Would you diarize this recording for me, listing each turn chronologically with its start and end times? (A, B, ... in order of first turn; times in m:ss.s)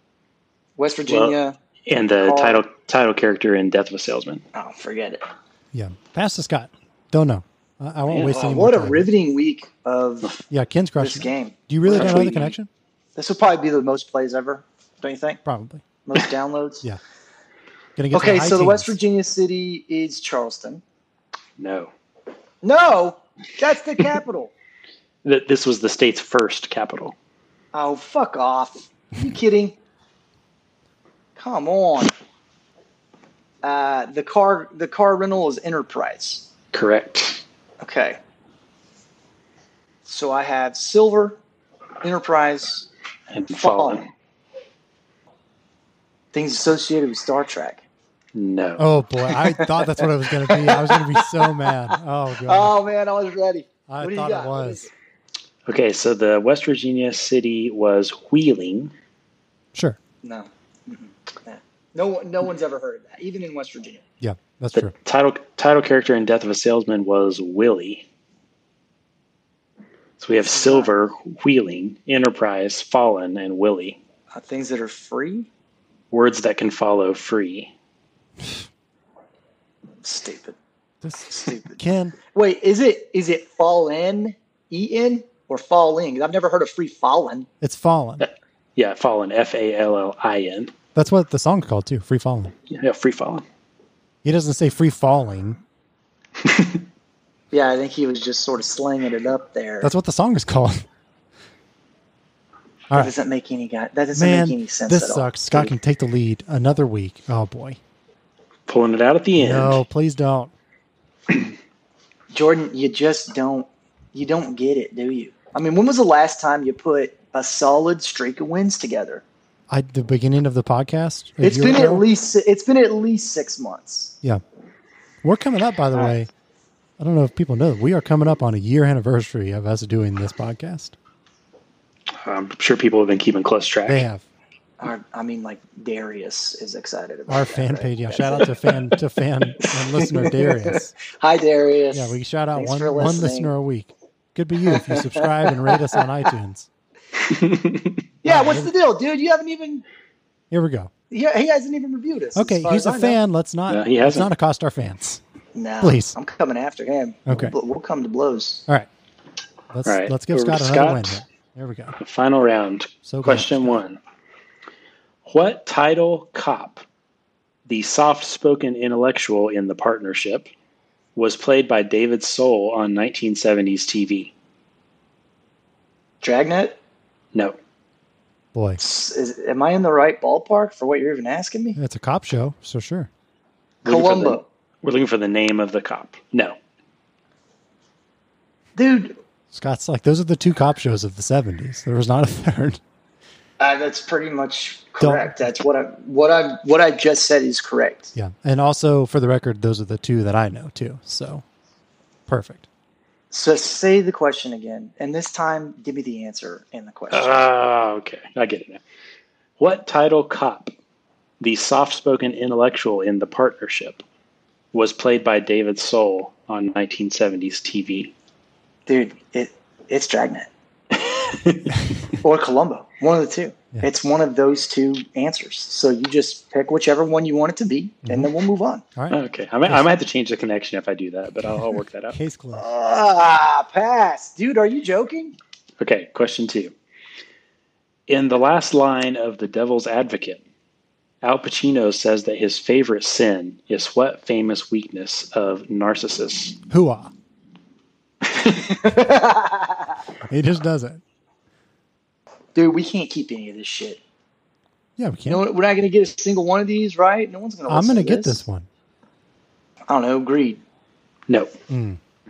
0:00.8-0:01.6 A
0:01.1-0:04.4 B
0:02.1-0:02.7 A
0:04.5-0:05.2 A
0:05.7-0:09.1 C
0:08.1-0:10.4 A
0:10.5-0:12.7 C
0:11.0-0:12.5 A
0:11.9-0:12.3 B
0:13.2-0:15.4 A
0:15.4-0:15.8 C
0:16.1-0:16.9 A
0:18.0-0:19.0 C
0:18.1-0:20.8 A
0:21.6-0:21.9 B
0:22.6-0:24.5 A
0:25.2-0:27.1 B
0:27.7-0:29.8 A
0:31.4-0:32.1 A
0:33.6-0:36.5 A
0:36.7-0:37.4 B
0:37.8-0:38.2 A
0:40.1-0:41.4 A
0:42.0-0:42.9 A
0:43.3-0:44.1 B
0:43.5-0:44.1 A
0:46.3-0:47.8 A
0:48.3-0:48.9 B
0:48.8-0:52.7 C
0:49.4-0:51.7 A
0:52.4-0:54.9 A
0:53.9-0:54.9 C
0:55.7-0:58.9 B
1:00.2-1:04.0 A
1:04.2-1:04.9 C
1:04.7-1:08.1 B
1:10.2-1:14.0 B
1:10.5-1:10.9 A
1:14.3-1:15.5 A
1:16.1-1:17.7 B
1:20.0-1:20.6 A
1:21.0-1:22.1 C
1:21.3-1:21.8 A
1:22.3-1:27.5 A
1:27.6-1:28.2 C
1:28.2-1:30.7 B
1:31.0-1:32.6 C
1:32.7-1:33.4 B
1:34.2-1:35.6 C
1:37.5-1:39.9 A
1:39.8-1:40.9 C
1:42.9-1:45.7 A
1:44.1-1:47.8 C
1:48.7-1:49.8 B
1:49.4-1:50.5 C
1:52.3-1:59.2 A
1:59.7-2:02.1 C
2:01.4-2:04.1 A
2:05.2-2:06.3 C
2:07.0-2:11.0 C
2:12.1-2:14.1 B
2:13.9-2:14.2 C
2:14.8-2:18.6 A
2:17.3-2:20.9 C
2:19.9-2:23.5 A
2:21.9-2:26.7 C
2:24.6-2:26.3 A
2:27.3-2:28.0 B
2:28.2-2:29.8 A
2:28.2-2:28.7 C
2:30.5-2:30.9 C
2:31.1-2:33.2 A
2:32.4-2:35.2 C
2:33.7-2:34.3 B
2:35.6-2:38.7 A
2:35.8-2:36.2 C
2:37.3-2:37.5 C
2:39.7-2:42.0 C
2:39.8-2:41.2 B
2:42.0-2:44.0 B
2:43.1-2:43.8 C
2:45.2-2:46.8 B
2:47.7-2:50.5 B
2:51.2-2:54.3 B
2:56.2-2:56.8 A
2:58.5-2:58.8 C
2:58.8-3:01.8 A
3:01.8-3:03.1 C
3:03.8-3:06.6 B
3:03.8-3:04.4 A
3:08.8-3:09.2 A
3:09.5-3:12.8 C
3:13.6-3:18.1 A
3:15.0-3:15.3 C
3:18.1-3:21.4 C
3:22.3-3:22.7 C
3:23.3-3:27.4 A
3:27.1-3:28.8 B
3:29.6-3:30.7 B
3:31.4-3:34.0 B
3:34.7-3:38.1 B
3:38.9-3:40.5 A
3:40.9-3:41.8 B
3:42.2-3:48.8 A
3:48.0-3:48.3 C
3:49.0-3:49.8 C
3:49.1-3:52.2 B
3:52.1-3:52.6 C
3:52.5-3:55.4 A
3:55.8-3:56.7 B
3:58.1-4:00.4 B
4:01.2-4:06.6 B
4:06.7-4:07.1 C
4:08.6-4:09.9 A
4:10.2-4:11.0 C
4:12.6-4:14.0 A
4:15.0-4:15.4 C
4:15.3-4:18.4 A
4:17.7-4:18.7 C
4:19.9-4:20.6 A
4:21.3-4:21.6 B
4:21.7-4:22.0 C